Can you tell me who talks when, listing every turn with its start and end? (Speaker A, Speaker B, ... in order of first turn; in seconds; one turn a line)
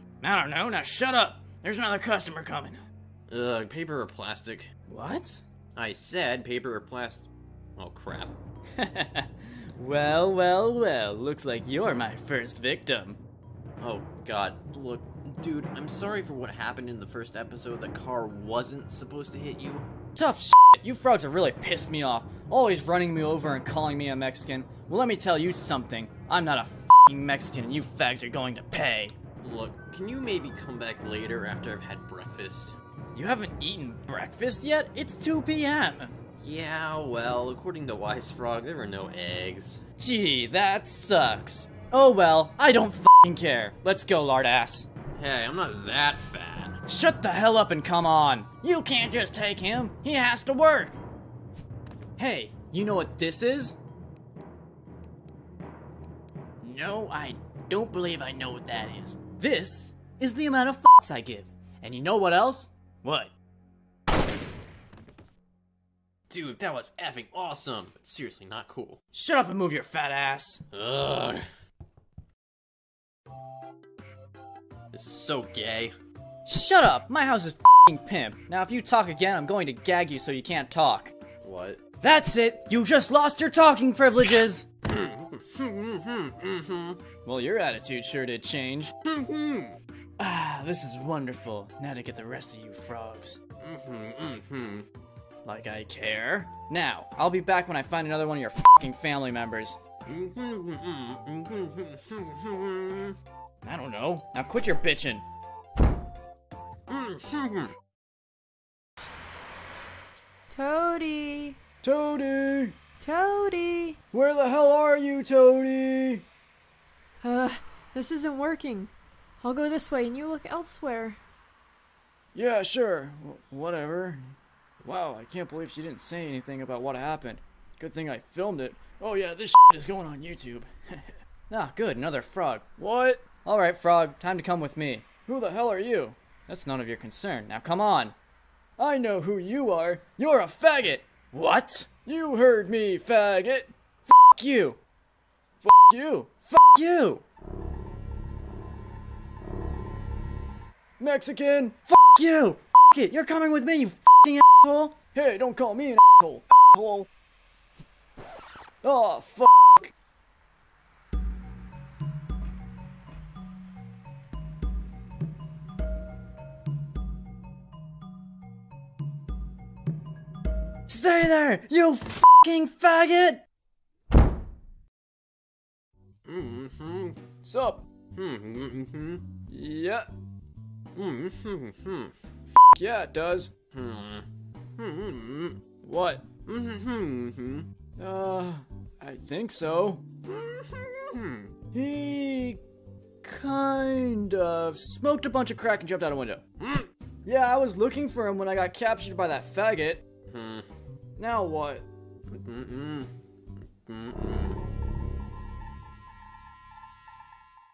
Speaker A: 0.2-2.8
Speaker B: 3.3-4.7
Speaker A: 4.9-5.4
Speaker B: 5.8-8.3
Speaker A: 8.8-13.2
Speaker B: 13.8-19.9
Speaker A: 20.1-29.1
Speaker B: 29.4-32.8
Speaker A: 33.1-36.1
Speaker B: 36.4-39.8
Speaker A: 40.0-44.9
Speaker B: 45.1-46.8
Speaker A: 46.9-51.0
Speaker A: 52.2-53.8
Speaker A: 56.6-63.3
Speaker B: 66.3-69.0
Speaker A: 69.1-70.6
Speaker B: 70.7-71.4
Speaker B: 74.9-75.9
Speaker A: 76.4-81.1
Speaker B: 81.4-81.8
Speaker A: 82.0-84.7
Speaker B: 84.9-87.0
Speaker A: 87.2-88.9
Speaker B: 89.1-89.7
Speaker A: 90.2-93.4
Speaker B: 93.6-94.8
Speaker A: 95.4-99.8
Speaker B: 100.0-103.1
Speaker A: 103.6-105.2
Speaker B: 106.9-107.7
Speaker C: 110.5-111.5
Speaker A: 111.8-112.8
Speaker C: 113.0-113.9
Speaker A: 114.1-116.2
Speaker C: 117.2-121.2
Speaker A: 122.3-138.1
Speaker A: 138.8-144.8
Speaker A: 145.6-147.2
Speaker A: 151.0-157.1
Speaker A: 158.8-159.9
Speaker A: 170.9-173.4
Speaker B: 176.2-177.2
Speaker A: 177.4-177.8
Speaker B: 178.1-179.2
Speaker A: 179.5-180.1
Speaker B: 180.9-182.1
Speaker A: 182.7-183.5
Speaker B: 183.7-184.2
Speaker B: 184.8-185.6
Speaker A: 185.8-186.3
Speaker B: 186.4-187.7
Speaker A: 188.0-190.0
Speaker B: 190.2-191.5
Speaker A: 191.7-192.6
Speaker A: 193.2-196.4
Speaker B: 196.6-196.9
Speaker A: 197.2-200.0
Speaker B: 200.3-200.7
Speaker A: 201.2-201.8
Speaker B: 202.3-203.1
Speaker B: 203.8-204.6